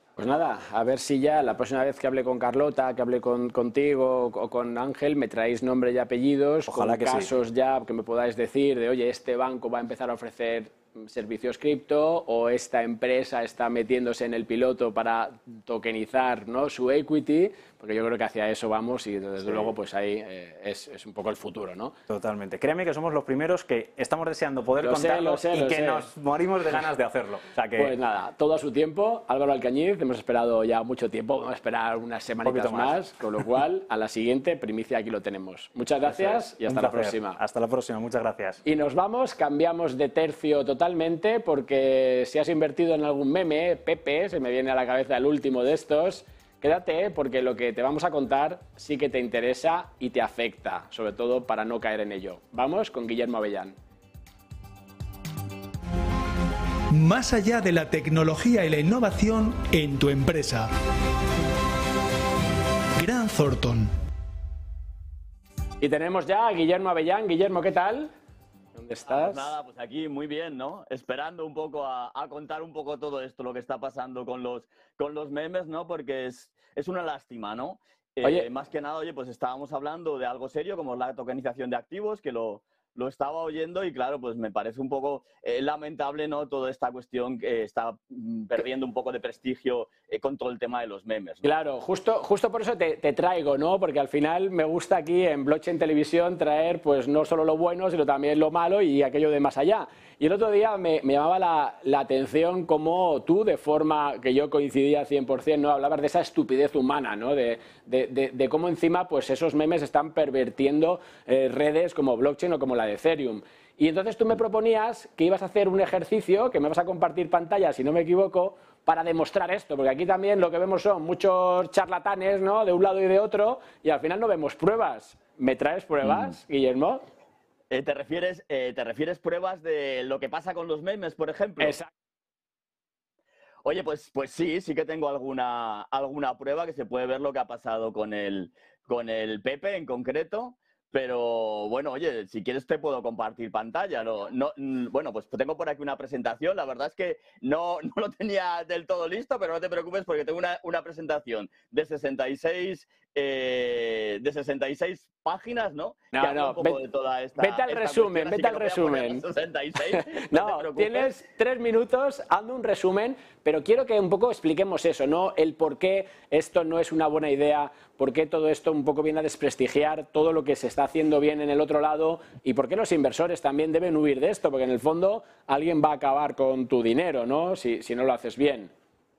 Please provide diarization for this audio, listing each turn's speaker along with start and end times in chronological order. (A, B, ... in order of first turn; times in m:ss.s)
0:00.2-0:21.9 A
0:06.7-0:07.3 B
0:22.1-0:27.9 B
0:24.8-0:26.1 A
0:27.8-0:37.4 A
0:32.4-0:33.1 B
0:36.0-0:38.6 B
0:38.6-0:53.8 A
0:56.9-1:00.7 C
1:03.0-1:03.9 C
1:05.8-1:08.1 A
1:08.8-1:09.5 A
1:09.1-1:31.4 D
1:18.2-1:18.5 A
1:31.4-2:07.0 A
2:07.7-2:11.8 D
2:11.6-2:11.9 A
2:13.6-2:41.1 D
2:36.1-2:36.8 A
2:37.4-2:39.2 A
2:39.9-2:58.7 A